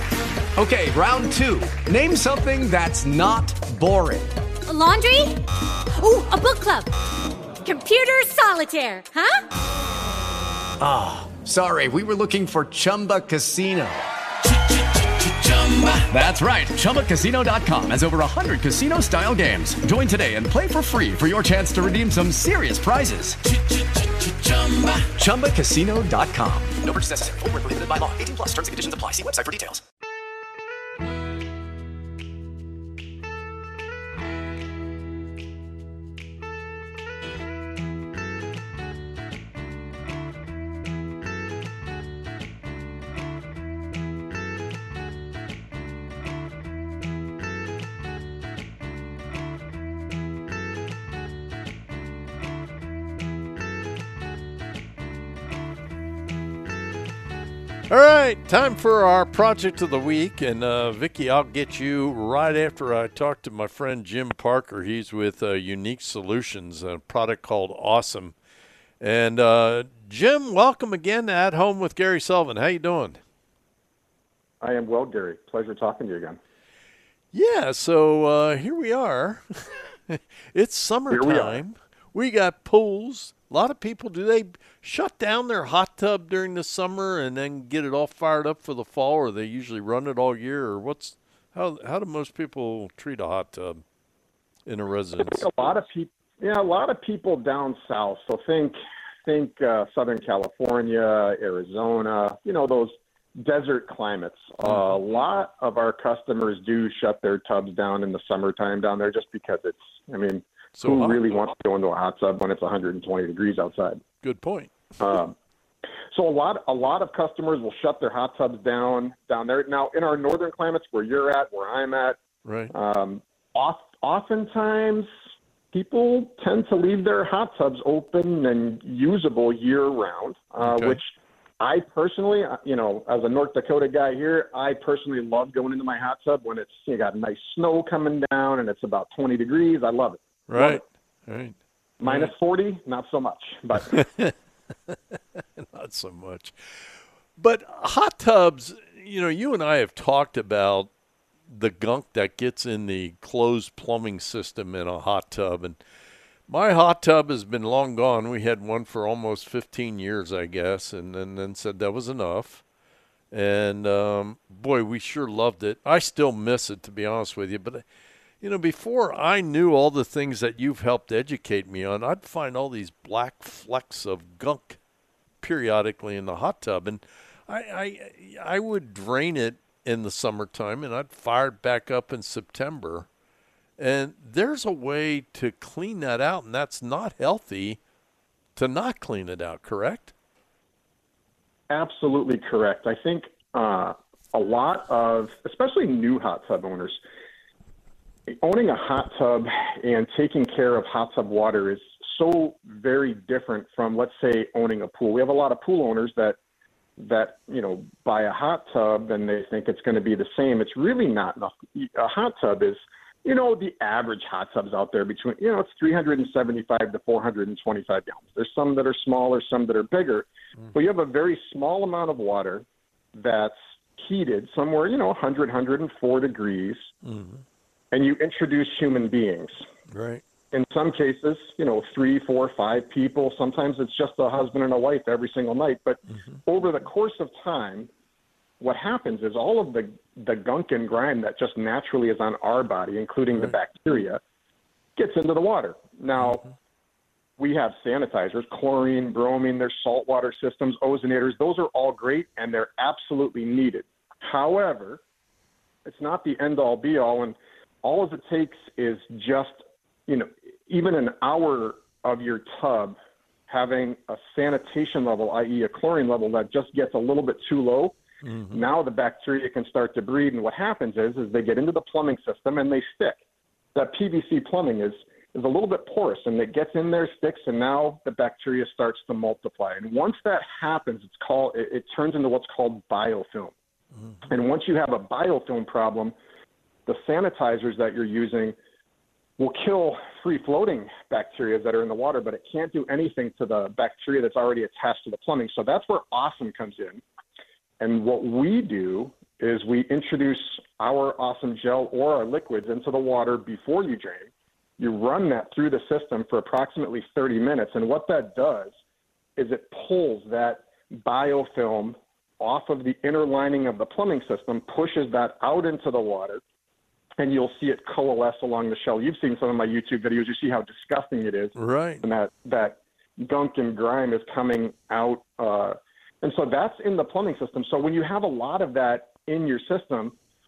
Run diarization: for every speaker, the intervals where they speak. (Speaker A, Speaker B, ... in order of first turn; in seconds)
Speaker A: 0.6-4.3, 10.8-14.0, 15.5-23.4, 24.5-29.8
Speaker B: 4.7-5.3, 6.0-6.9, 7.6-9.4
Speaker C: 57.9-68.3, 69.0-73.2, 77.3-93.8, 94.7-95.5, 110.8-111.3, 114.2-114.7, 122.4-122.7, 130.6-131.0, 140.5-141.5, 145.6-146.5, 147.4-150.9, 151.5-155.8, 156.5-162.6, 163.3-167.8, 168.4-174.8, 175.4-183.0, 183.8-187.8, 188.6-190.1, 227.1-227.4, 229.9-230.2, 268.2-268.6, 321.6-322.0
Speaker D: 74.6-76.4, 81.1-81.6, 95.2-114.0, 115.0-115.3, 116.1-122.2, 122.7-125.1, 125.7-140.8, 142.0-144.0, 191.7-197.0, 198.4-206.4, 207.0-226.8, 227.9-229.6, 230.5-237.9, 238.6-244.2, 245.0-246.5, 247.4-255.0, 255.8-262.9, 263.5-268.0, 268.5-273.2, 273.7-283.5, 284.3-286.1, 286.9-288.5, 289.4-297.0, 297.8-308.7, 309.4-316.4, 317.2-330.1